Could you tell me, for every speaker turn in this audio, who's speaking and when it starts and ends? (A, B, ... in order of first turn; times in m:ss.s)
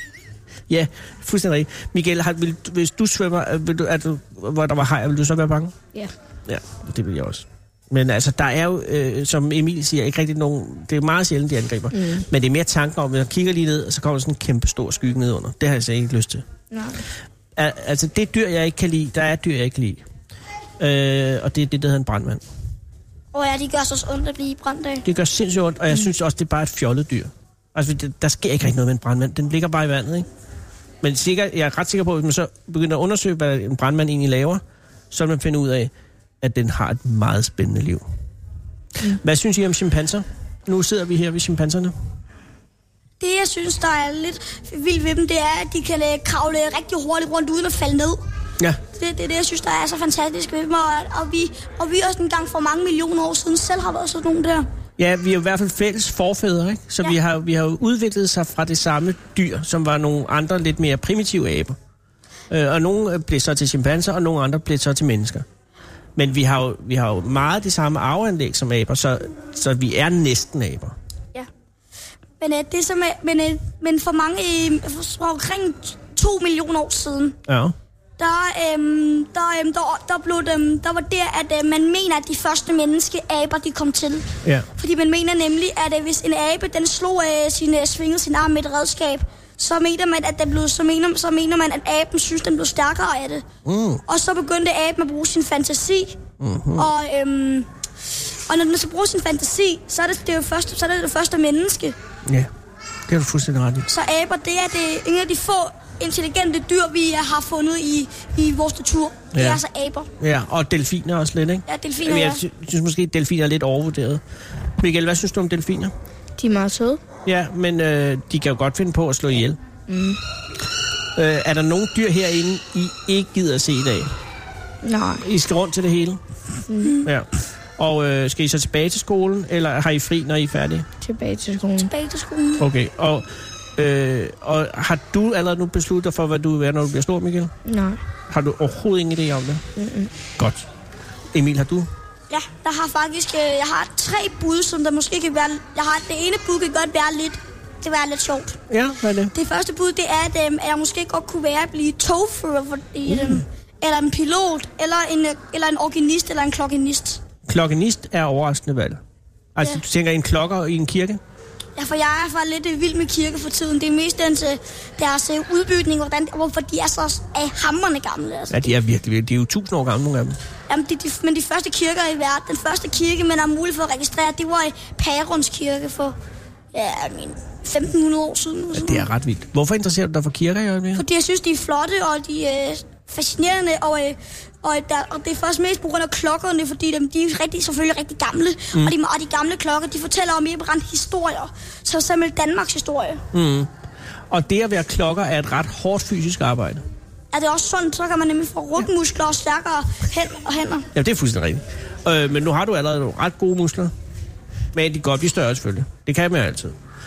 0:00.7-0:05.8 A
0:06.5-0:16.4 A
0:11.9-0:12.2 B
0:16.7-0:17.0 B
0:17.6-0:20.0 A
0:20.8-0:22.4 A
0:23.3-0:25.0 C
0:25.0-0:30.3 A
0:31.0-0:38.0 A
0:39.0-0:41.9 A
0:43.2-0:48.2 C
0:48.9-0:54.7 C
0:55.0-1:01.8 A
1:02.5-1:05.4 A
1:06.2-1:10.9 A
1:12.4-1:17.4 C
1:17.5-1:17.7 A
1:18.2-1:33.4 C
1:24.4-1:24.7 A
1:33.6-1:34.0 A
1:34.1-1:36.2 C
1:36.4-1:36.9 A
1:36.8-1:37.7 C
1:38.5-1:42.0 C
1:43.1-1:43.9 A
1:43.9-1:50.1 C
1:49.3-1:49.6 A
1:50.2-1:54.2 A
1:51.7-1:52.4 C
1:54.8-1:55.9 A
1:56.4-1:57.0 B
1:57.2-1:59.6 A
1:59.9-2:00.2 B
2:01.2-2:04.1 A
2:04.8-2:05.2 B
2:05.2-2:06.2 A
2:06.7-2:07.0 B
2:07.0-2:10.8 A
2:11.0-2:11.9 B
2:11.8-2:12.6 C
2:12.6-2:17.5 A
2:17.6-2:18.0 B
2:18.3-2:19.6 A
2:19.8-2:20.1 B
2:20.4-2:20.7 A
2:21.3-2:21.9 A
2:22.3-2:28.6 C
2:28.7-2:29.3 A
2:29.3-2:37.2 C
2:33.1-2:33.4 A
2:37.4-2:39.0 A
2:39.5-2:41.2 A
2:41.8-2:48.7 C
2:48.5-2:50.4 A
2:50.7-2:56.2 C
2:56.7-2:59.1 C
2:58.7-3:01.0 A
3:01.0-3:13.2 C
3:13.3-3:13.7 A
3:14.3-3:16.8 A
3:17.3-3:20.9 C
3:20.9-3:23.9 A
3:24.7-3:26.7 A